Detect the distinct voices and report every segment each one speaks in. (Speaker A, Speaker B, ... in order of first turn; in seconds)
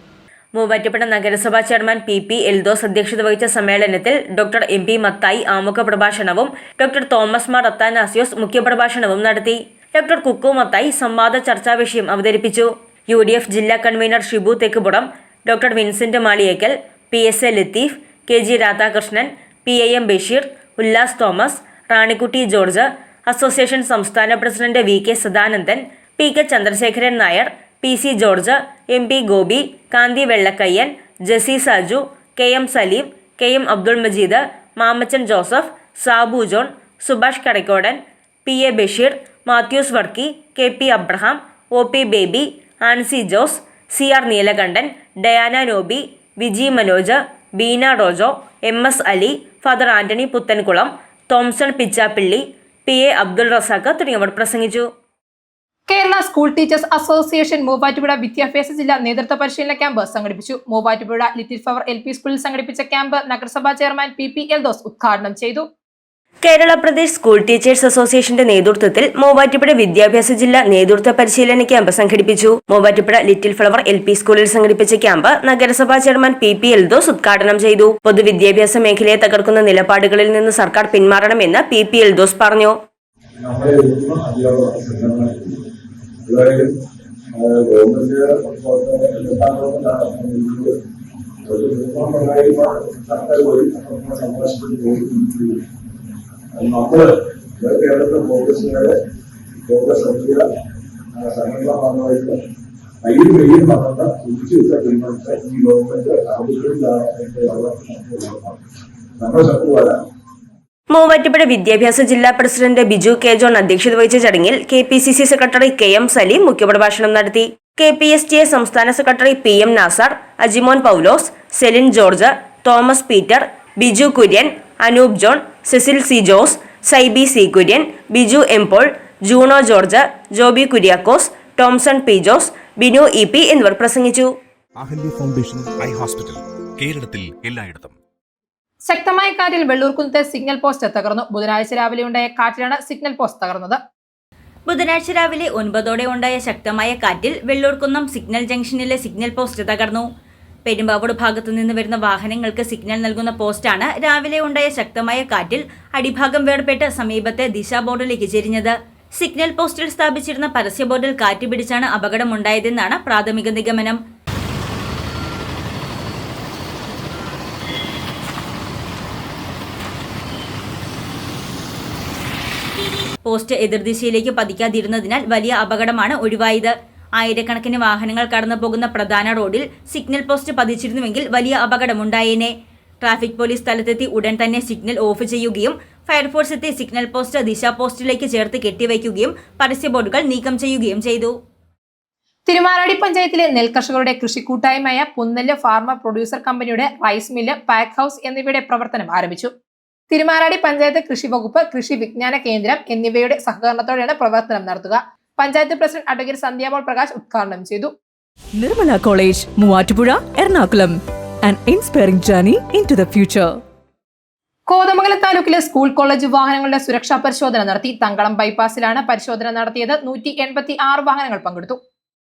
Speaker A: 0.6-54.9, 66.4-82.8, 110.9-134.3
Speaker B: 55.9-65.6, 138.9-143.8, 192.5-199.5, 200.1-207.9, 214.7-221.8
Speaker C: 83.4-85.6, 86.3-86.8, 87.3-90.7, 91.5-95.6, 96.5-99.0, 99.7-100.5, 101.1-102.4, 103.0-108.6, 109.2-110.0
Speaker D: 134.8-138.0
Speaker E: 144.7-150.0, 150.7-164.0, 173.2-182.5, 183.0-191.3
Speaker F: 208.6-213.6